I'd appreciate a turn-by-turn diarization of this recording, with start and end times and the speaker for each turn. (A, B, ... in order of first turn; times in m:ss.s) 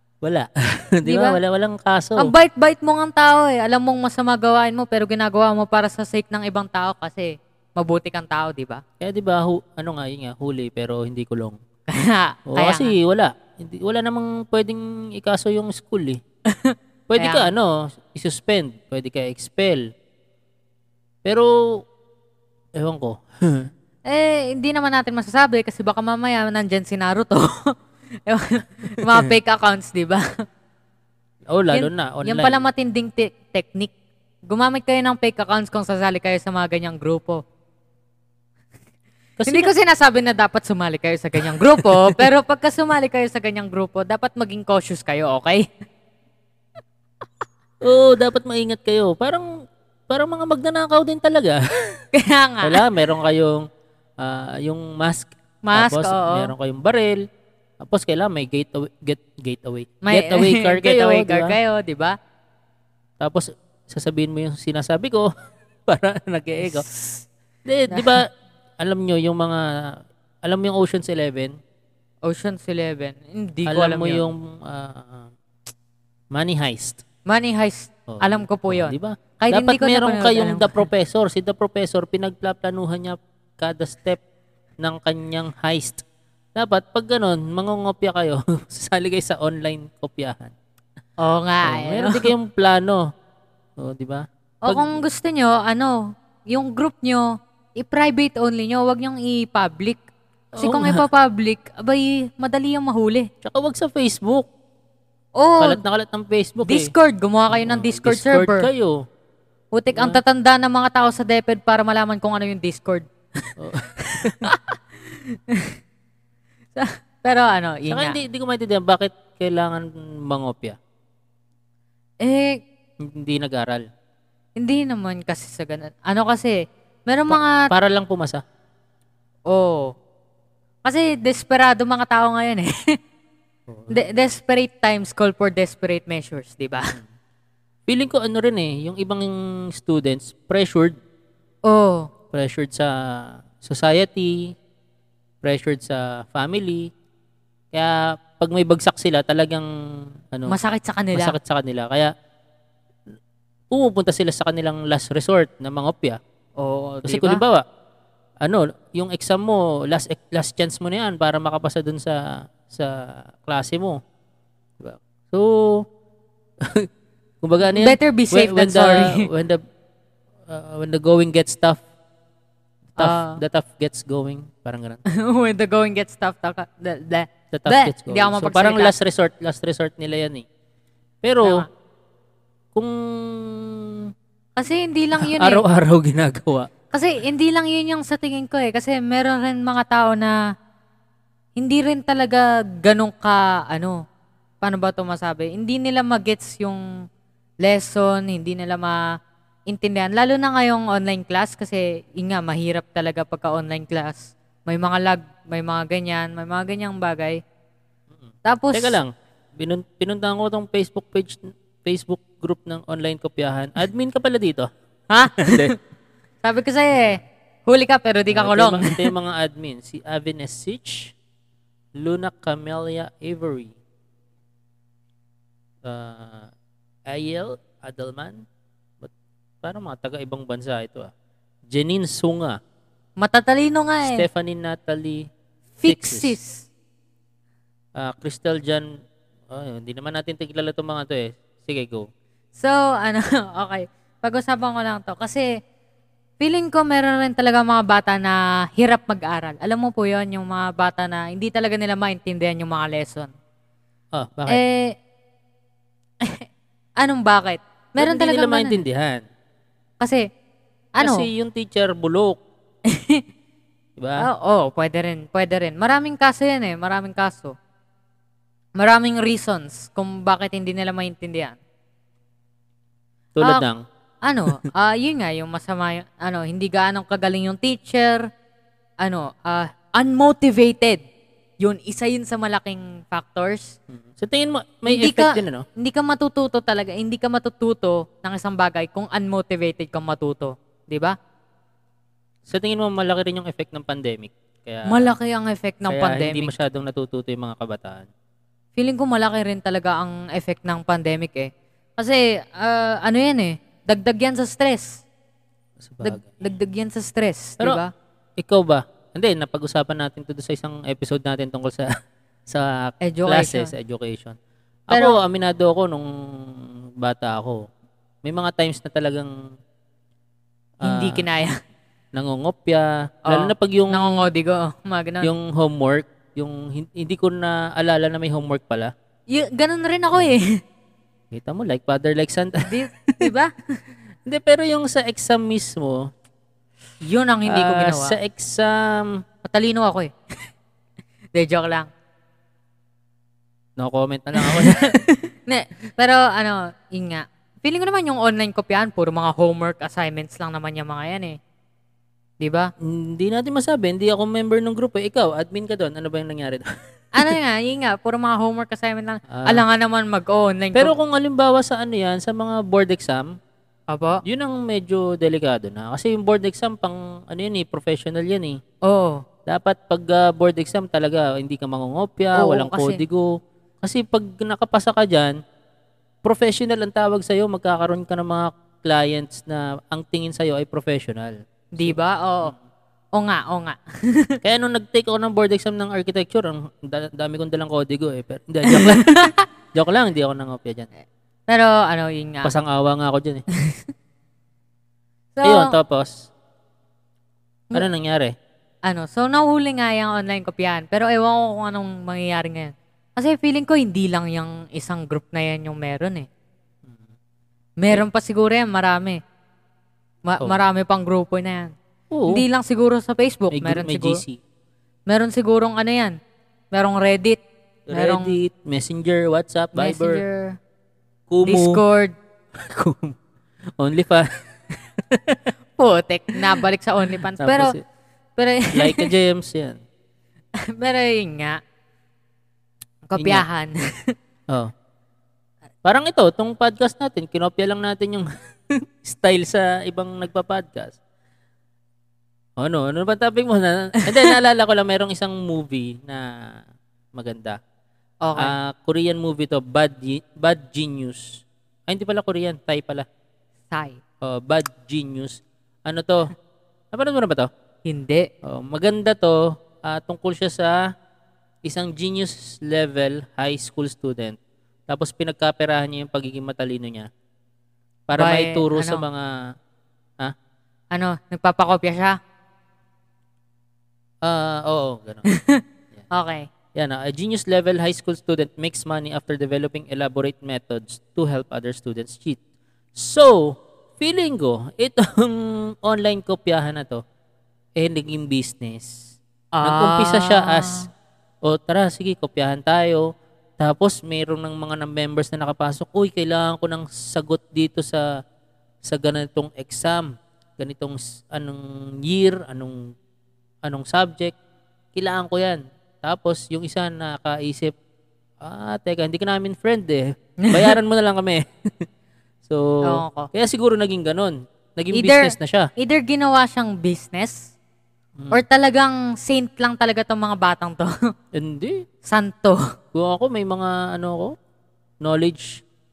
0:00.2-0:02.3 A
0:01.1-0:01.4 B
0:02.2-0:08.8 B
0:09.0-0:11.6 A
0:11.9-0:13.0 B
0:12.5-0:16.2 A
0:16.5-0:17.5 B
0:17.1-0:19.9 A
0:21.2-0:21.5 A
0:22.8-0:23.7 A
0:24.1-0:27.7 B
0:28.3-0:30.2 B
0:31.5-0:32.6 A
0:31.7-0:33.9 B
0:34.5-0:37.4 B
0:39.4-0:39.7 A
0:39.5-0:45.7 B
0:41.4-0:42.3 A
0:47.8-0:49.5 A
0:50.1-0:51.6 A
0:52.1-0:52.8 B
0:52.6-0:53.7 A
0:54.2-0:57.2 A
0:55.6-0:56.5 B
0:57.8-1:01.6 A
1:00.0-1:02.2 B
1:03.2-1:05.3 A
1:05.9-1:06.9 A
1:06.6-1:07.2 B
1:07.6-1:08.3 A
1:07.9-1:08.2 B
1:08.8-1:11.5 A
1:12.3-1:14.3 B
1:13.7-1:15.3 A
1:16.3-1:17.0 A
1:17.3-1:20.9 B
1:18.1-1:24.2 A
1:24.8-1:26.0 A
1:26.6-1:30.5 A
1:31.2-1:32.3 B
1:31.6-1:33.1 A
1:33.8-1:35.0 A
1:34.6-1:40.0 B
1:40.6-1:41.0 A
1:40.6-1:43.3 B
1:43.4-1:44.5 A
1:45.4-1:45.8 B
1:45.6-1:46.9 A
1:46.6-1:48.7 B
1:47.5-1:49.0 A
1:49.7-1:53.1 B
1:49.9-1:50.2 A
1:53.6-1:54.5 A
1:54.0-1:55.7 B
1:56.8-1:58.2 B
1:57.9-2:00.8 A
2:02.2-2:02.6 B
2:03.0-2:03.9 A
2:04.6-2:07.7 B
2:07.3-2:08.4 A
2:09.5-2:09.9 B
2:10.8-2:12.7 B
2:13.7-2:14.0 A
2:13.9-2:17.0 B
2:17.9-2:21.0 A
2:21.7-2:22.1 B
2:22.3-2:24.5 A
2:25.4-2:26.9 A
2:27.7-2:29.7 A
2:30.5-2:31.4 B
2:31.1-2:32.1 A
2:33.7-2:36.2 A
2:36.6-2:37.4 B
2:37.0-2:37.6 A
2:38.4-2:44.0 A
2:44.8-2:45.8 A
2:46.6-2:46.9 A
2:47.4-2:49.6 A
2:47.7-2:49.3 B
2:50.5-2:51.8 A
2:53.0-2:53.4 B
2:53.0-2:55.0 A
2:55.1-2:58.9 B
2:57.5-3:00.5 A
3:01.2-3:01.7 A
3:02.7-3:04.1 A
3:04.6-3:05.6 B
3:05.2-3:06.7 A
3:06.9-3:10.4 B
3:11.6-3:14.0 B
3:14.6-3:16.8 B
3:17.6-3:19.0 B
3:19.7-3:27.4 B
3:28.4-3:29.0 B
3:28.7-3:34.7 A
3:35.1-3:35.8 B
3:35.4-3:35.7 A
3:36.4-3:39.1 B
3:38.3-3:41.2 A
3:42.0-3:43.8 A
3:45.8-3:46.5 A
3:47.1-3:48.4 A
3:49.6-3:51.1 A
3:51.7-3:52.6 A
3:53.2-3:54.2 B
3:54.0-3:55.3 A
3:55.8-3:56.7 B
3:55.8-3:56.4 A
3:58.0-3:58.9 A
3:59.5-4:02.1 A
4:02.6-4:05.5 B
4:06.4-4:13.3 B
4:14.1-4:14.6 A
4:14.5-4:14.9 B
4:17.0-4:18.8 B
4:18.0-4:19.2 A
4:21.0-4:21.3 B
4:21.0-4:22.4 A
4:22.9-4:23.2 B
4:24.0-4:24.3 A
4:24.2-4:27.6 B
4:28.8-4:31.6 B
4:33.4-4:33.8 A
4:34.2-4:38.3 B
4:39.0-4:41.0 B
4:41.6-4:43.8 B
4:43.9-4:45.7 A
4:44.9-4:51.2 B
4:52.5-4:55.1 A
4:54.9-4:56.5 B
4:55.9-4:58.1 A
4:58.8-5:05.0 B
5:05.8-5:06.2 A
5:06.0-5:07.9 B
5:08.4-5:11.9 A
5:12.5-5:14.4 A
5:13.0-5:13.7 B
5:14.9-5:17.6 A
5:14.9-5:15.2 B
5:18.2-5:19.3 A
5:20.8-5:21.2 A
5:20.8-5:21.6 B
5:22.1-5:24.2 A
5:23.3-5:25.3 B
5:25.2-5:28.9 A
5:29.3-5:30.6 B
5:31.3-5:33.3 A
5:32.7-5:33.5 B
5:34.3-5:36.1 A
5:37.0-5:38.2 B
5:37.5-5:39.2 A
5:39.4-5:40.1 B
5:41.3-5:41.9 B
5:43.8-5:45.0 A
5:44.4-5:51.4 B
5:52.4-5:52.7 B
5:52.8-5:56.7 A
5:57.2-6:00.9 B
5:59.3-5:59.6 A
6:00.8-6:03.3 A
6:03.9-6:04.2 B
6:04.2-6:08.6 A
6:08.8-6:09.2 B
6:09.5-6:13.3 A
6:12.4-6:13.0 B
6:13.8-6:15.4 A
6:16.2-6:22.6 A
6:21.8-6:22.5 B
6:23.2-6:24.4 B
6:24.4-6:30.9 A
6:28.7-6:29.4 B
6:31.5-6:32.5 B
6:32.4-6:33.4 A
6:35.4-6:35.8 B
6:35.4-6:36.3 A
6:37.7-6:38.4 A
6:38.8-6:46.3 B
6:47.8-6:49.2 B
6:50.3-6:51.7 B
6:52.1-6:52.4 A
6:52.3-6:54.2 B
6:53.5-6:54.4 A
6:55.1-6:56.2 B
6:56.7-6:57.4 B
6:57.9-7:00.2 A
6:57.9-6:58.4 B
6:59.8-7:00.6 B
7:01.3-7:01.8 A
7:01.4-7:02.2 B
7:02.6-7:03.2 A
7:03.8-7:05.4 A
7:05.8-7:07.8 B
7:07.4-7:07.8 A
7:08.4-7:09.1 B
7:08.7-7:09.8 A
7:10.7-7:11.6 B
7:13.1-7:14.1 B
7:13.2-7:13.4 A
7:15.8-7:21.0 A
7:22.6-7:26.3 A
7:24.0-7:24.3 B
7:27.2-7:27.6 A
7:28.2-7:28.6 B
7:28.4-7:33.1 A
7:33.7-7:34.0 B
7:34.2-7:36.3 A
7:36.9-7:37.5 A
7:37.8-7:38.3 B
7:38.4-7:40.8 A
7:41.6-7:44.4 A
7:44.9-7:47.1 A
7:48.1-7:49.3 A
7:48.2-7:49.0 B
7:50.9-7:52.2 B
7:54.2-7:55.3 A
7:55.3-7:56.5 B
7:56.8-8:02.4 A
8:03.0-8:07.0 A
8:07.8-8:10.9 A
8:09.6-8:10.9 B
8:11.4-8:13.1 A
8:13.6-8:18.0 A
8:18.8-8:22.8 A
8:23.6-8:24.4 A
8:25.0-8:27.7 A
8:28.4-8:31.9 A
8:30.4-8:30.7 B
8:32.4-8:35.7 A
8:32.8-8:33.3 B
8:34.9-8:37.5 B
8:38.2-8:38.4 A
8:38.3-8:40.9 B
8:41.3-8:41.8 A
8:42.1-8:42.6 B
8:42.9-8:44.3 A
8:45.0-8:45.6 A